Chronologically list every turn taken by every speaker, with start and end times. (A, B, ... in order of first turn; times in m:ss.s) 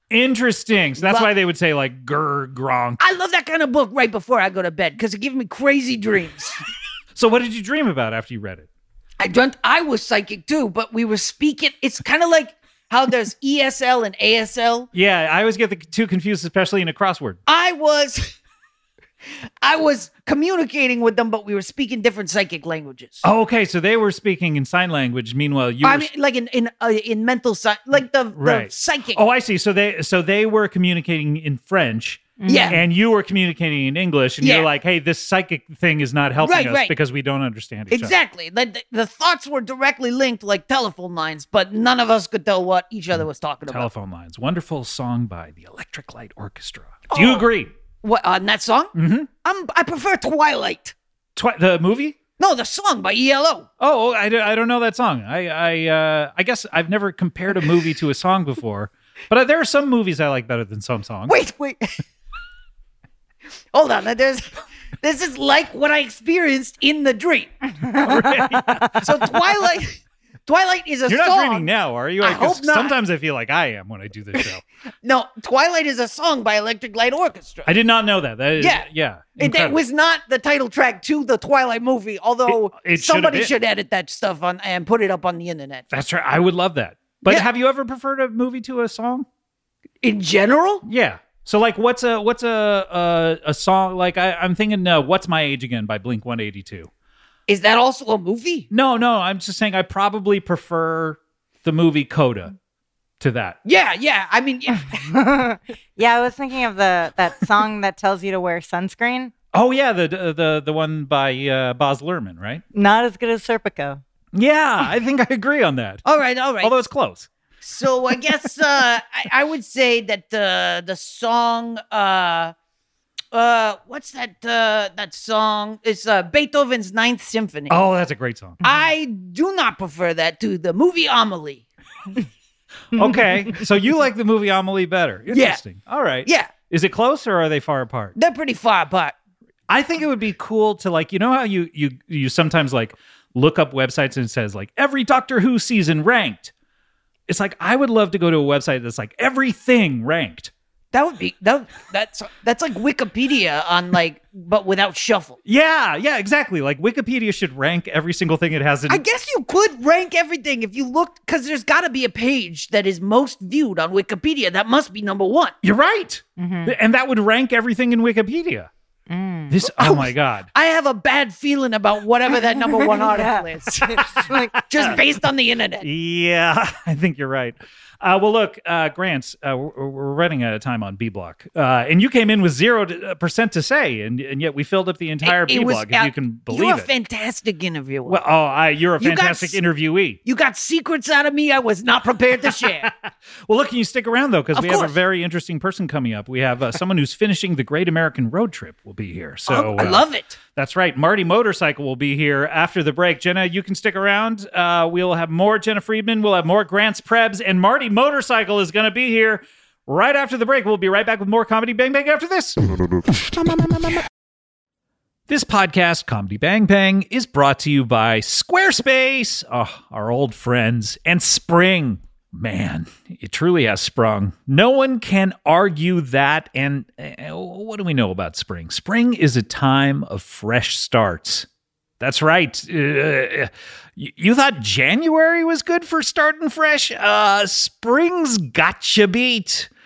0:00.1-0:03.0 A
0:01.0-0:01.3 B
0:03.0-0:06.6 B
0:07.2-0:08.7 A
0:09.2-0:14.9 B
0:14.9-0:17.4 A
0:17.5-0:18.3 B
0:19.6-0:23.2 B
0:23.2-0:26.1 A
0:25.8-0:29.2 B
0:28.3-0:38.2 A
0:32.4-0:32.8 C
0:32.4-0:32.8 B
0:34.4-0:34.7 B
0:36.4-0:36.9 B
0:37.9-0:43.9 B
0:43.7-0:47.7 A
0:47.1-0:47.4 B
0:48.0-0:50.9 B
0:48.9-0:49.3 A
0:51.4-0:52.2 A
0:52.4-0:53.7 B
0:53.8-1:01.4 A
1:01.3-1:01.9 B
1:03.7-1:07.6 B
1:07.9-1:09.0 A
1:08.5-1:08.8 C
1:09.0-1:11.7 B
1:11.1-1:14.6 A
1:12.2-1:12.9 B
1:15.0-1:17.7 B
1:17.6-1:19.8 A
1:18.6-1:18.9 B
1:19.4-1:25.8 B
1:22.5-1:23.5 A
1:25.9-1:29.2 A
1:30.0-1:30.8 B
1:30.8-1:36.9 A
1:37.5-1:38.7 B
1:38.7-1:42.5 A
1:43.2-1:43.6 A
1:43.6-1:45.1 B
1:45.1-1:49.3 C
1:49.5-1:52.6 A
1:52.7-1:54.0 C
1:54.3-1:56.0 A
1:56.0-1:56.7 B
1:56.6-1:57.3 A
1:57.6-2:02.5 B
2:03.3-2:07.8 B
2:07.7-2:08.6 A
2:08.6-2:11.6 B
2:12.9-2:18.2 A
2:15.3-2:15.6 B
2:16.2-2:16.5 B
2:18.2-2:19.1 B
2:19.7-2:26.5 A
2:27.3-2:30.5 A
2:30.9-2:35.4 B
2:35.4-2:39.0 A
2:38.9-2:45.5 B
2:45.6-2:48.7 A
2:46.4-2:46.8 C
2:49.1-2:49.5 C
2:49.5-2:50.5 A
2:49.7-2:55.9 B
2:52.4-2:54.9 C
2:54.6-2:54.9 A
2:55.8-3:06.9 A
3:05.2-3:08.2 B
3:08.0-3:10.2 A
3:09.0-3:09.6 B
3:10.2-3:12.9 B
3:12.5-3:32.6 A
3:14.5-3:15.0 B
3:19.5-3:20.4 B
3:35.3-3:51.5 A
3:52.0-3:59.7 A